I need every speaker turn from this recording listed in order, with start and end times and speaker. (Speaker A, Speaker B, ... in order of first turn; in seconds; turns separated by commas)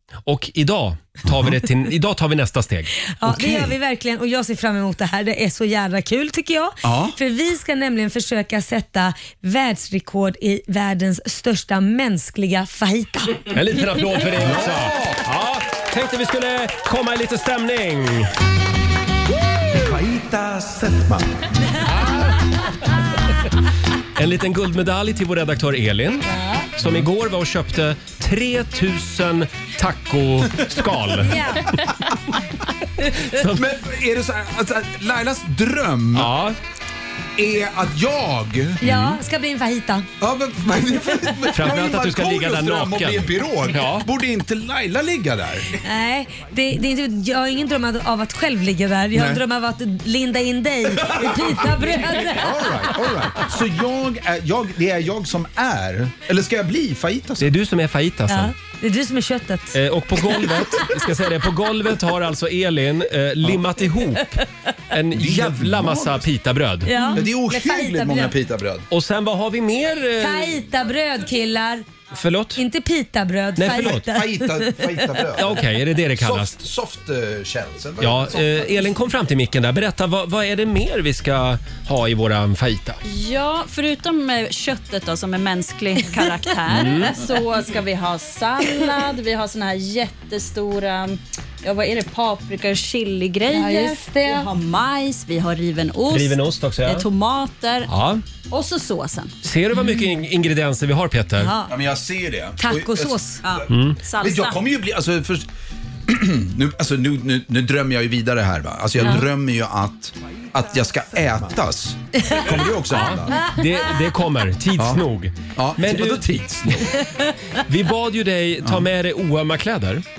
Speaker A: 0.2-2.9, Speaker B: 3.1-13.5, Speaker C: 3.2-3.7, Speaker C: 6.8-7.2, Speaker A: 13.5-18.3, Speaker C: 14.4-15.2, Speaker C: 19.7-21.3, Speaker A: 21.9-22.4, Speaker A: 24.1-31.5, Speaker B: 26.2-26.7, Speaker B: 31.2-31.8, Speaker A: 33.1-33.6, Speaker C: 33.4-36.3, Speaker A: 36.1-36.6, Speaker C: 37.4-38.8, Speaker B: 38.8-40.1, Speaker A: 38.8-39.2, Speaker C: 40.2-45.8, Speaker A: 41.5-44.1, Speaker B: 45.8-52.9, Speaker C: 49.1-49.4, Speaker C: 51.0-57.5, Speaker A: 57.4-58.5, Speaker B: 58.3-59.8, Speaker A: 59.7-66.9, Speaker C: 65.1-66.3, Speaker B: 66.8-68.3, Speaker C: 67.1-68.9, Speaker A: 68.9-70.7, Speaker B: 70.2-71.9, Speaker A: 72.1-72.6, Speaker B: 72.5-75.3, Speaker A: 73.6-74.0, Speaker C: 73.7-75.6, Speaker A: 75.3-76.6, Speaker C: 76.1-78.8, Speaker A: 78.0-83.0, Speaker D: 83.0-97.9, Speaker A: 86.7-87.2, Speaker B: 93.5-94.5, Speaker A: 96.1-97.1, Speaker A: 97.9-98.2, Speaker D: 98.5-99.3, Speaker A: 99.4-101.5, Speaker B: 101.4-101.7, Speaker C: 101.7-105.5, Speaker B: 102.6-103.4, Speaker D: 103.4-104.6, Speaker A: 103.7-104.0, Speaker C: 106.1-113.5, Speaker A: 112.9-116.8, Speaker C: 114.8-115.0, Speaker C: 115.5-117.0, Speaker A: 117.7-120.0